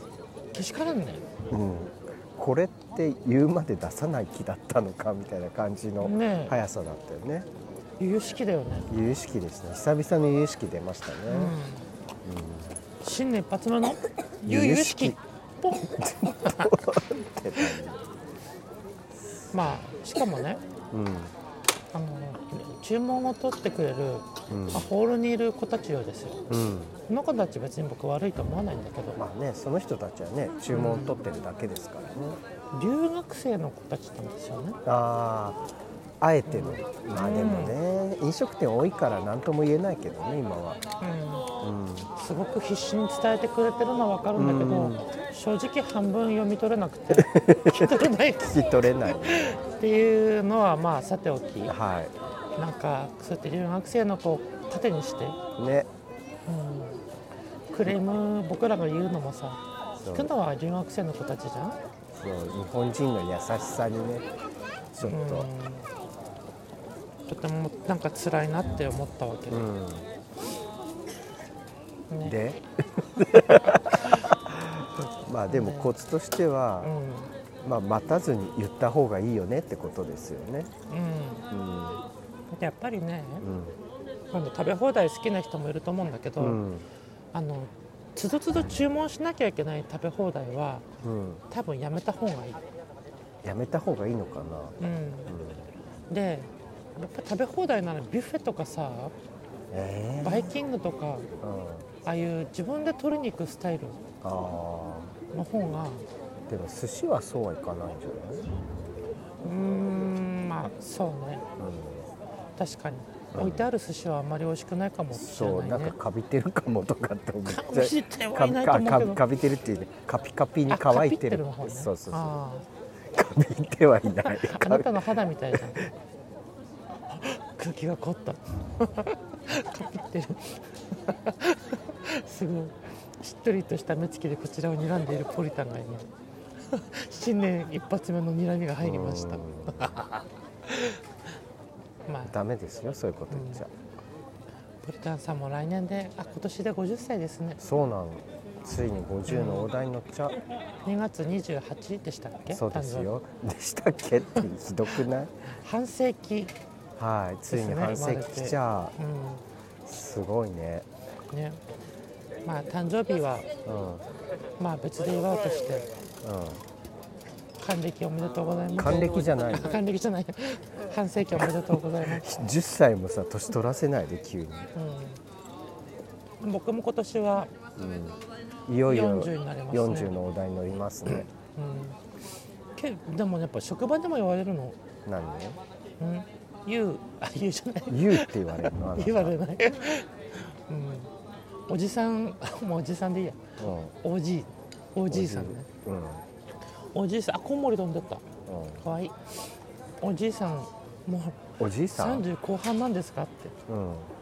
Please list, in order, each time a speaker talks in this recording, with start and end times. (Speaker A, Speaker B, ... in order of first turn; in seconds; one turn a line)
Speaker A: 0.5-1.2
Speaker B: 1.5-7.5
Speaker A: 6.0-6.6
Speaker A: 8.0-8.9
Speaker B: 8.9-11.5
Speaker A: 11.3-11.9
Speaker B: 12.2-12.8
Speaker A: 13.0-16.7
Speaker B: 14.4-15.2
Speaker B: 15.7-18.0
Speaker B: 19.2-19.5
Speaker A: 19.5-20.6
Speaker B: 20.9-21.3
Speaker A: 21.9-26.4
Speaker B: 24.5-24.9
Speaker B: 26.5-26.9
Speaker A: 27.1-29.2
Speaker B: 29.2-32.4
Speaker A: 30.7-31.2
Speaker A: 32.7-34.8
Speaker B: 34.8-35.6
Speaker B: 36.2-40.8
Speaker A: 36.5-37.8
Speaker A: 41.0-41.5
Speaker B: 41.6-42.1
Speaker A: 42.1-51.8
Speaker B: 44.4-45.0
Speaker B: 47.1-49.6
Speaker B: 51.7-52.1
Speaker A: 52.5-55.4
Speaker B: 55.6-55.9
Speaker A: 56.5-57.0
Speaker A: 57.7-61.8
Speaker B: 60.0-60.3
Speaker B: 62.1-64.2
Speaker B: 64.9-65.5
Speaker A: 65.0-65.9
Speaker A: 67.3-69.7
Speaker B: 69.5-70.1
Speaker A: 72.1-72.4
Speaker B: 72.2-76.9
Speaker A: 75.5-75.9
Speaker A: 76.8-77.3
Speaker B: 77.6-80.7
Speaker A: 80.9-81.5
Speaker B: 81.5-82.0
Speaker A: 82.5-83.5
Speaker B: 83.4-83.8
Speaker A: 84.3-86.6
Speaker B: 86.4-86.8
Speaker A: 87.3-90.8
Speaker B: 91.0-91.4
Speaker A: 91.5-92.6
Speaker B: 93.4-95.7
Speaker A: 94.8-95.4
Speaker A: 96.1-99.1
Speaker B: 99.7-100.5
Speaker A: 100.2-101.3
Speaker B: 101.4-101.9
Speaker A: 102.0-104.0
Speaker B: 104.2-105.1
Speaker A: 105.3-106.0
Speaker B: 106.5-108.5
Speaker A: 109.4-111.4
Speaker B: 111.6-112.1
Speaker A: 112.6-116.0
Speaker B: 113.3-113.7
Speaker B: 115.1-122.3
Speaker A: 117.4-119.2
Speaker A: 120.7-122.7
Speaker B: 123.1-125.9
Speaker A: 124.2-125.9
Speaker A: 127.1-136.1
Speaker A: 136.7-141.0
Speaker B: 138.8-140.0
Speaker A: 142.1-142.3
Speaker B: 142.3-143.7
Speaker A: 143.3-143.6
Speaker A: 144.8-147.6
Speaker B: 147.6-150.4
Speaker A: 149.3-149.7
Speaker A: 150.8-153.1
Speaker B: 152.5-155.3
Speaker A: 155.5-156.5
Speaker B: 157.0-158.9
Speaker A: 157.5-159.4
Speaker B: 159.8-160.8
Speaker A: 161.3-161.6
Speaker A: 162.4-163.5
Speaker B: 163.6-164.0
Speaker A: 164.6-165.9
Speaker B: 166.2-166.6
Speaker A: 167.6-172.5
Speaker B: 168.8-169.8
Speaker B: 172.0-174.7
Speaker A: 174.7-175.2
Speaker A: 176.4-177.5
Speaker B: 177.8-181.3
Speaker A: 178.8-180.1
Speaker A: 181.1-182.0
Speaker A: 182.8-184.8
Speaker B: 185.1-185.6
Speaker A: 186.0-191.1
Speaker B: 187.9-189.3
Speaker A: 191.7-195.7
Speaker B: 193.6-193.9
Speaker B: 195.1-196.2
Speaker A: 196.9-198.2
Speaker B: 198.5-198.8
Speaker A: 198.8-199.3
Speaker A: 200.0-203.6
Speaker B: 201.6-202.2
Speaker B: 203.7-204.1